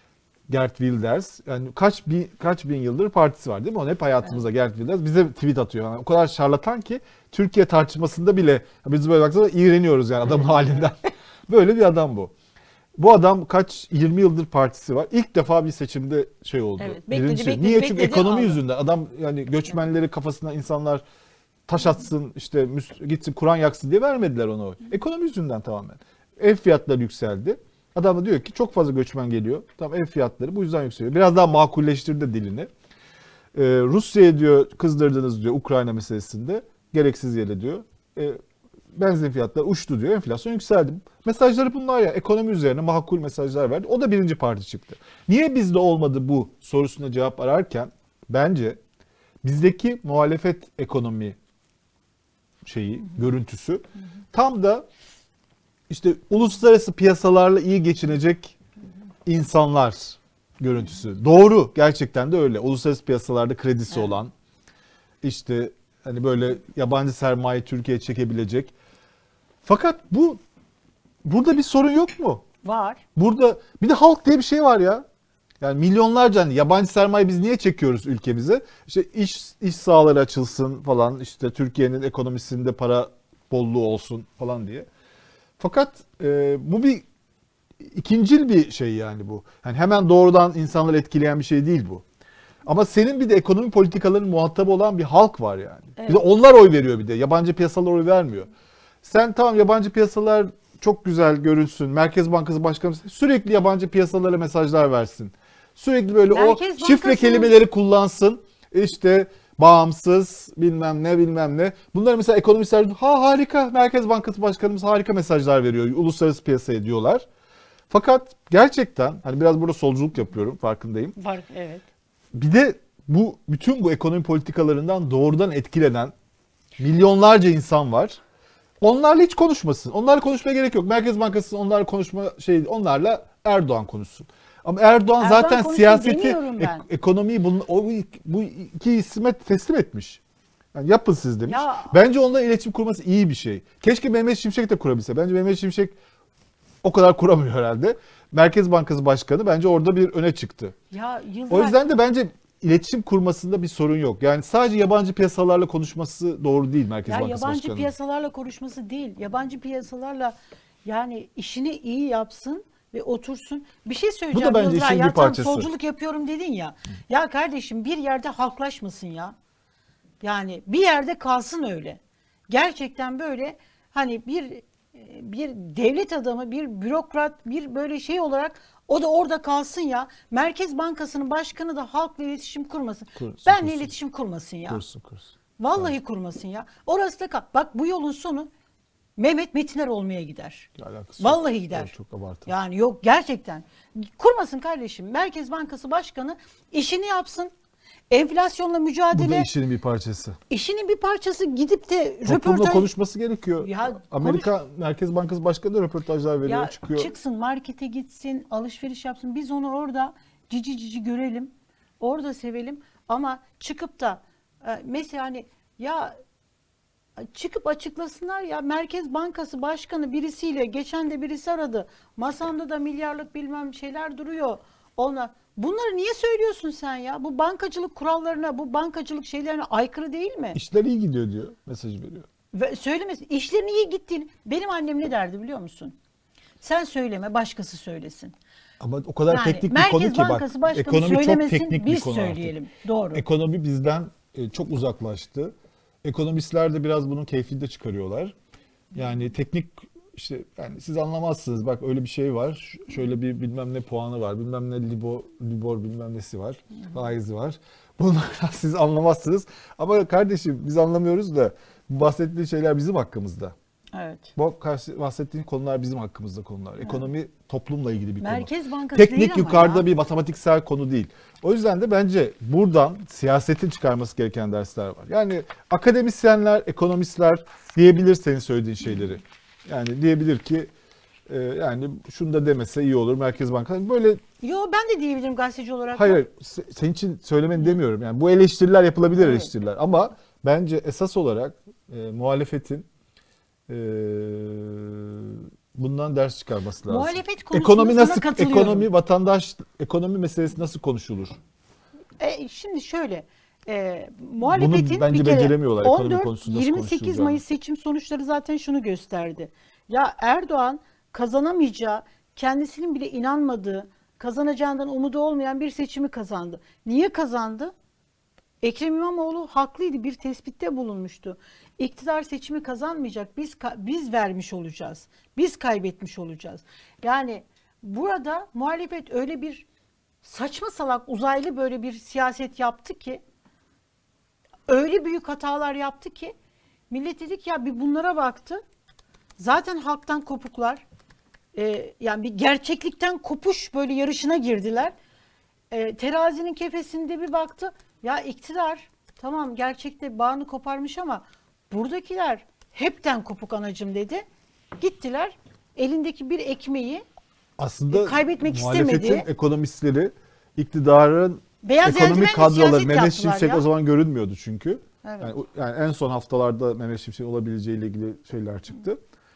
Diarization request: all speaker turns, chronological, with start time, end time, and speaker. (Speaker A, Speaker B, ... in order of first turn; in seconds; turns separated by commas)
Speaker A: 0.5-12.3, Speaker A: 13.0-21.0, Speaker B: 16.8-18.6, Speaker A: 21.7-32.7, Speaker A: 33.5-38.4, Speaker A: 38.9-48.8, Speaker A: 49.4-51.4, Speaker A: 52.6-54.9, Speaker A: 55.9-58.5, Speaker A: 59.2-64.3, Speaker A: 65.2-68.7, Speaker A: 69.6-70.4, Speaker A: 71.2-72.4, Speaker B: 72.6-73.0, Speaker A: 73.2-75.0, Speaker A: 75.6-84.9, Speaker A: 85.6-87.0, Speaker A: 87.8-92.0, Speaker A: 92.7-98.5, Speaker B: 96.0-96.2, Speaker A: 99.0-117.2, Speaker B: 106.3-107.5, Speaker A: 117.9-121.2, Speaker B: 121.2-121.8, Speaker A: 122.3-126.1, Speaker A: 126.8-128.2, Speaker A: 128.8-140.2, Speaker B: 135.2-136.8, Speaker A: 140.7-145.9, Speaker B: 141.5-142.0, Speaker A: 146.8-150.8, Speaker B: 150.9-151.8, Speaker A: 151.5-157.9, Speaker B: 157.1-169.3, Speaker A: 164.3-165.7, Speaker B: 170.2-184.8, Speaker A: 183.2-183.9, Speaker A: 184.7-185.9, Speaker B: 185.6-188.5, Speaker B: 189.2-191.9, Speaker A: 190.8-192.5, Speaker B: 192.4-197.5, Speaker B: 198.1-199.5, Speaker A: 199.1-200.4, Speaker B: 200.5-202.9, Speaker A: 202.2-207.1, Speaker B: 203.6-204.5, Speaker B: 206.4-216.1, Speaker B: 217.2-230.6, Speaker A: 230.5-232.3, Speaker B: 232.5-236.0, Speaker B: 236.6-238.3, Speaker A: 238.8-242.5, Speaker B: 239.3-243.2, Speaker A: 243.1-248.3, Speaker A: 248.9-263.5, Speaker B: 263.9-264.3, Speaker A: 264.4-280.7, Speaker B: 268.2-269.9, Speaker A: 281.3-284.2, Speaker B: 284.4-286.2, Speaker A: 285.9-292.9, Speaker B: 289.2-289.5, Speaker A: 293.7-301.4, Speaker B: 296.9-298.9, Speaker B: 302.2-317.7, Speaker A: 304.4-307.4, Speaker B: 318.6-329.6, Speaker B: 330.2-333.2, Speaker B: 334.7-336.3, Speaker B: 336.9-338.6, Speaker B: 339.4-340.8, Speaker B: 341.5-344.9, Speaker B: 345.7-354.2, Speaker B: 354.8-357.0, Speaker A: 357.6-369.0, Speaker B: 357.9-359.3, Speaker B: 361.6-363.6, Speaker B: 365.0-365.3